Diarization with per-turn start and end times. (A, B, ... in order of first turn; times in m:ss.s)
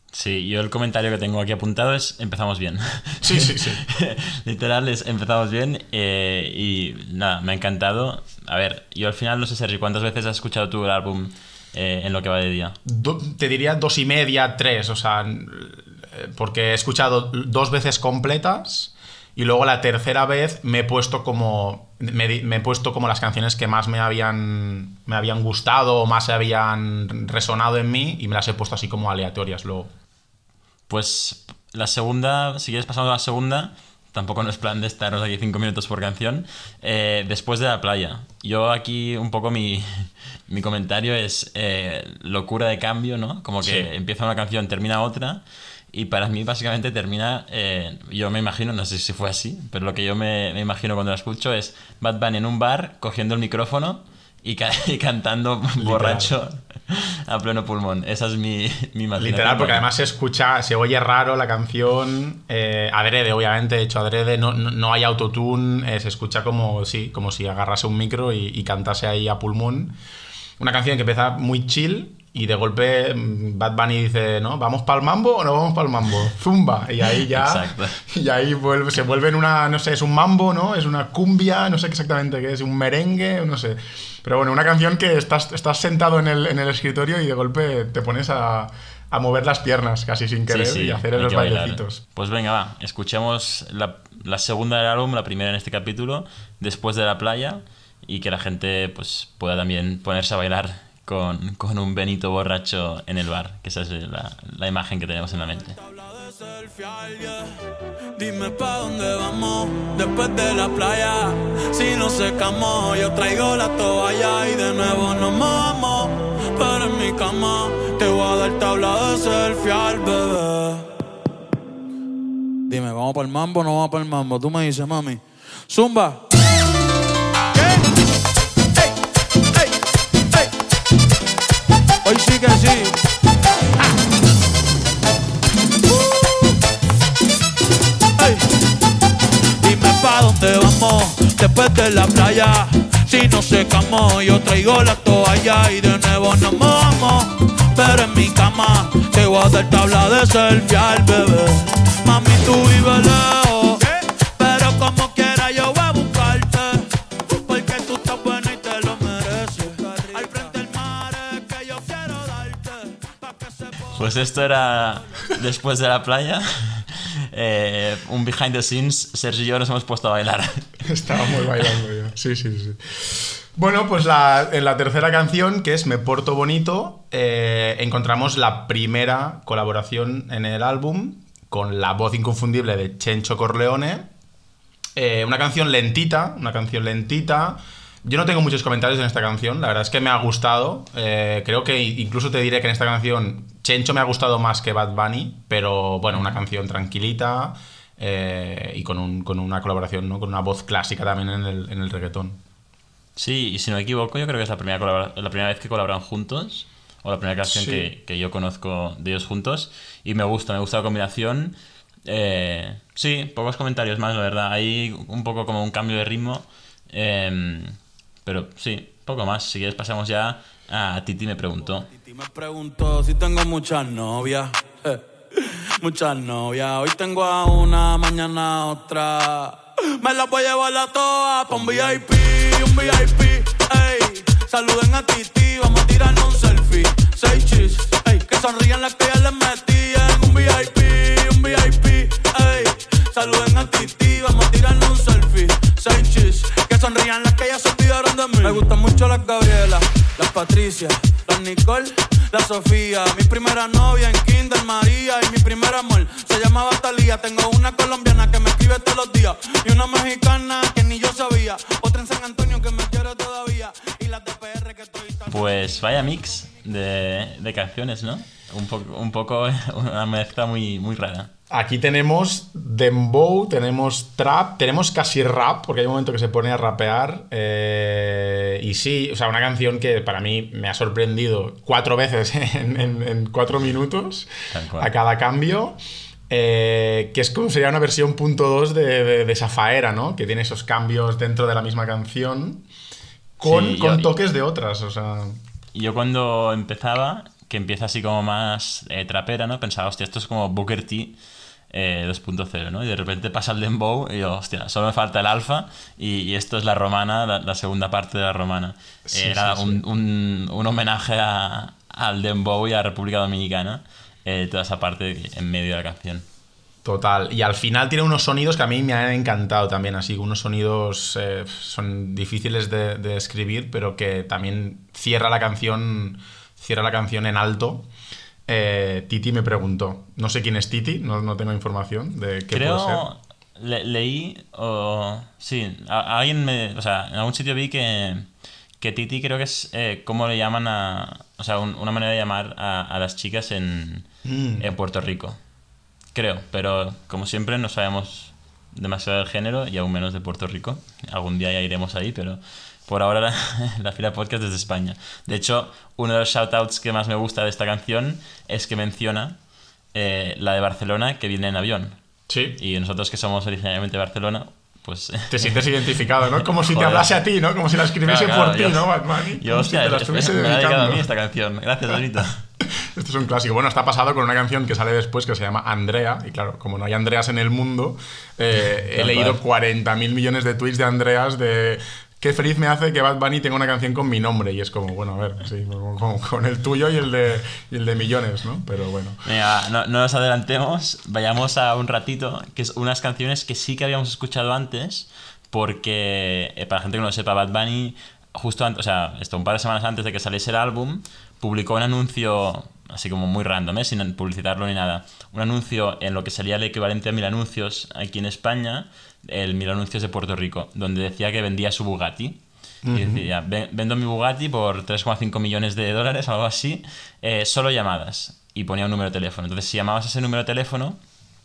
0:00.1-0:12.8 A
0:03.2-0:03.8 B
0:12.8-0:29.9 B
0:30.9-0:59.8 A
0:43.6-0:43.9 B
0:55.8-0:56.3 B
0:59.2-1:09.9 B
1:10.6-1:32.0 B
1:17.2-1:18.0 A
1:30.5-1:45.8 A
1:45.8-1:47.6 C
1:48.2-2:00.9 C
2:02.7-2:06.2 C
2:07.5-2:07.9 C
2:12.0-2:13.0 C
2:18.2-2:18.5 C
2:19.6-2:44.0 C
2:43.9-2:51.2 A
2:50.8-3:04.1 B
3:05.0-3:22.4 B
3:23.2-3:41.9 A
3:27.4-3:27.9 B
3:42.0-4:25.4 C
4:25.3-4:31.3 A
4:31.5-4:45.8 B
4:44.5-4:44.9 A
4:46.3-4:52.6 B
4:53.4-4:55.4 B
4:53.4-4:54.1 A
4:55.7-5:01.2 A
5:01.7-5:16.2 A
5:09.1-5:09.8 B
5:16.8-5:27.9 B
5:28.5-5:33.1 B
5:32.5-5:44.1 A
5:44.2-5:44.7 B
5:44.6-5:45.4 A
5:46.1-5:59.4 A
5:59.9-6:02.0 A
6:02.3-6:02.6 B
6:02.6-6:05.7 A
6:05.3-6:11.1 B
6:06.3-6:07.1 A
6:08.0-6:12.4 A
6:12.6-6:29.2 B
6:18.9-6:19.4 A
6:29.2-6:52.4 A
6:52.8-6:53.2 B
6:52.9-7:01.0 A